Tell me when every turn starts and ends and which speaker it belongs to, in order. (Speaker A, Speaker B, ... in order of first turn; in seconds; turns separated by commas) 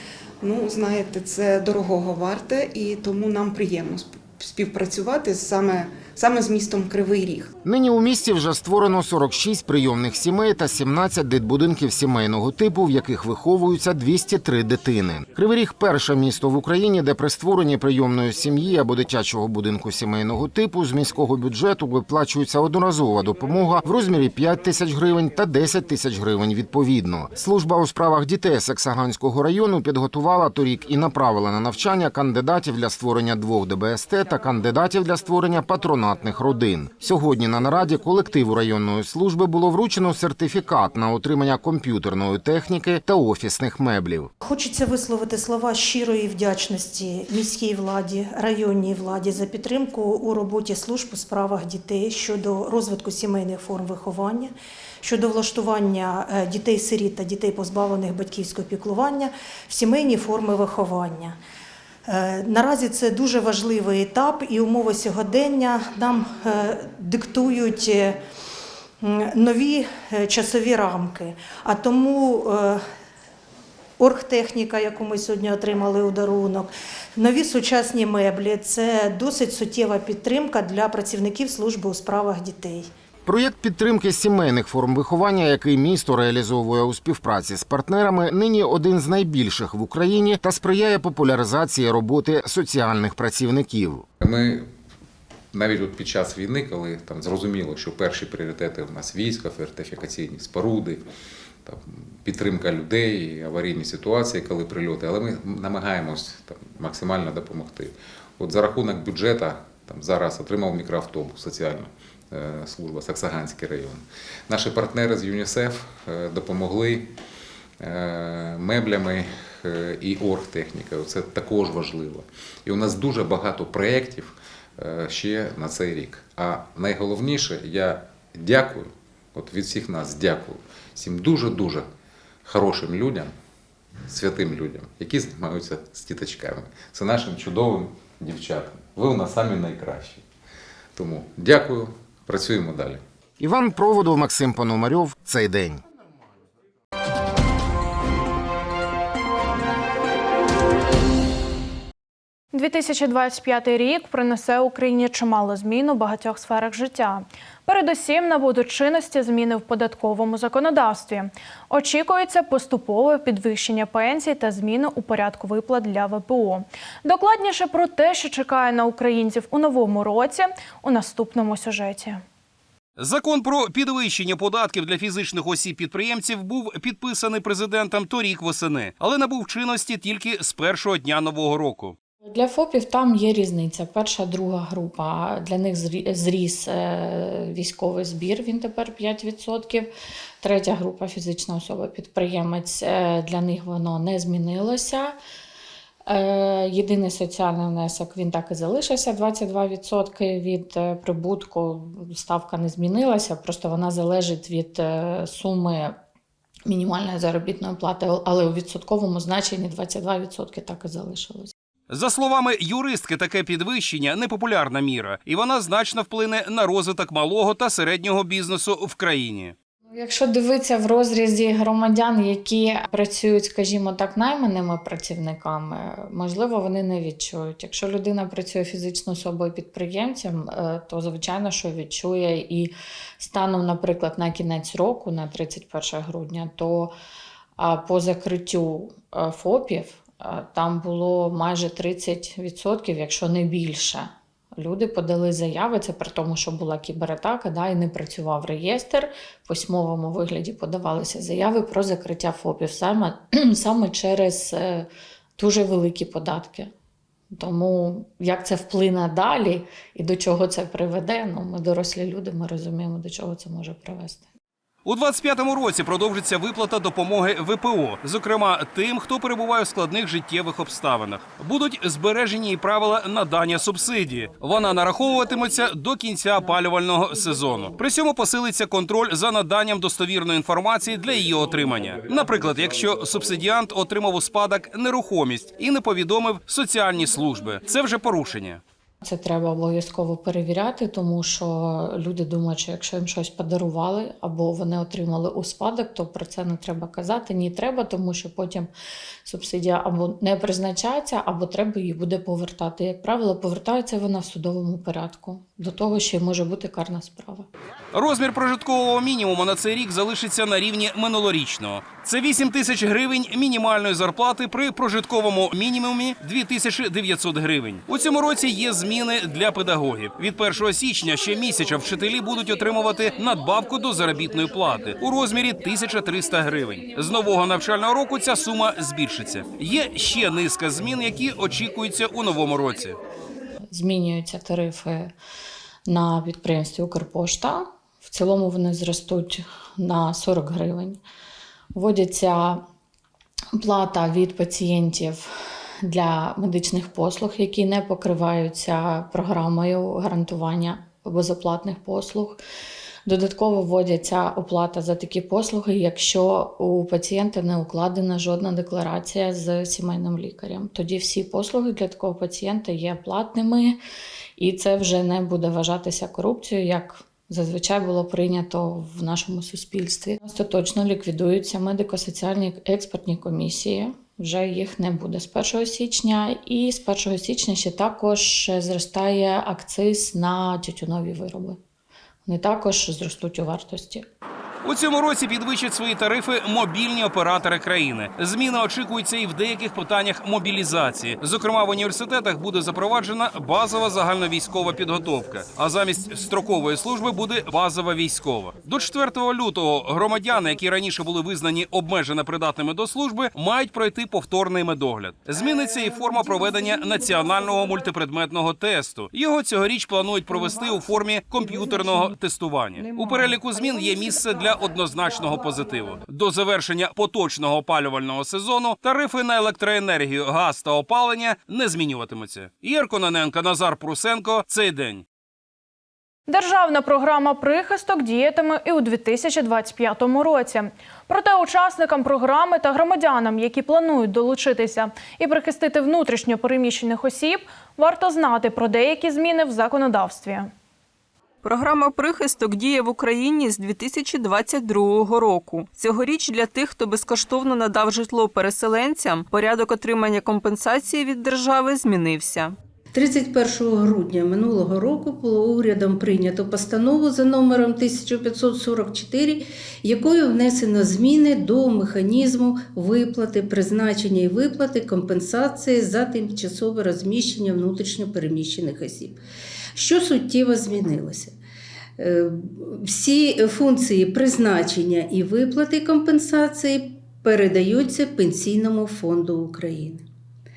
Speaker A: 0.4-7.5, Speaker B: 7.6-44.3, Speaker C: 44.4-61.4, Speaker C: 62.0-68.2, Speaker C: 69.0-72.8, Speaker C: 74.0-82.9, Speaker B: 83.2-94.0, Speaker D: 94.2-94.7, Speaker D: 95.5-101.0, Speaker D: 101.6-117.1, Speaker D: 117.8-131.9, Speaker D: 132.4-133.3, Speaker D: 134.1-140.2, Speaker D: 140.9-143.0, Speaker B: 143.4-145.8, Speaker E: 152.5-172.2, Speaker F: 173.0-181.9, Speaker G: 182.2-189.9, Speaker G: 190.4-195.1, Speaker G: 196.1-206.0, Speaker G: 206.7-211.5, Speaker F: 211.9-219.5, Speaker G: 219.9-236.9, Speaker G: 237.6-256.7, Speaker G: 257.3-264.3, Speaker F: 264.9-288.6, Speaker G: 289.0-298.7, Speaker G: 299.2-307.5, Speaker F: 307.9-333.0, Speaker G: 333.7-335.1, Speaker G: 335.9-341.0, Speaker G: 341.7-342.6, Speaker G: 343.6-345.3, Speaker G: 345.8-352.4, Speaker G: 353.0-363.8, Speaker G: 364.4-381.6, Speaker G: 382.2-384.0, Speaker F: 384.6-425.0, Speaker E: 426.3-440.5, Speaker H: 441.4-452.5, Speaker I: 452.9-469.2, Speaker I: 469.8-471.3, Speaker I: 472.0-480.0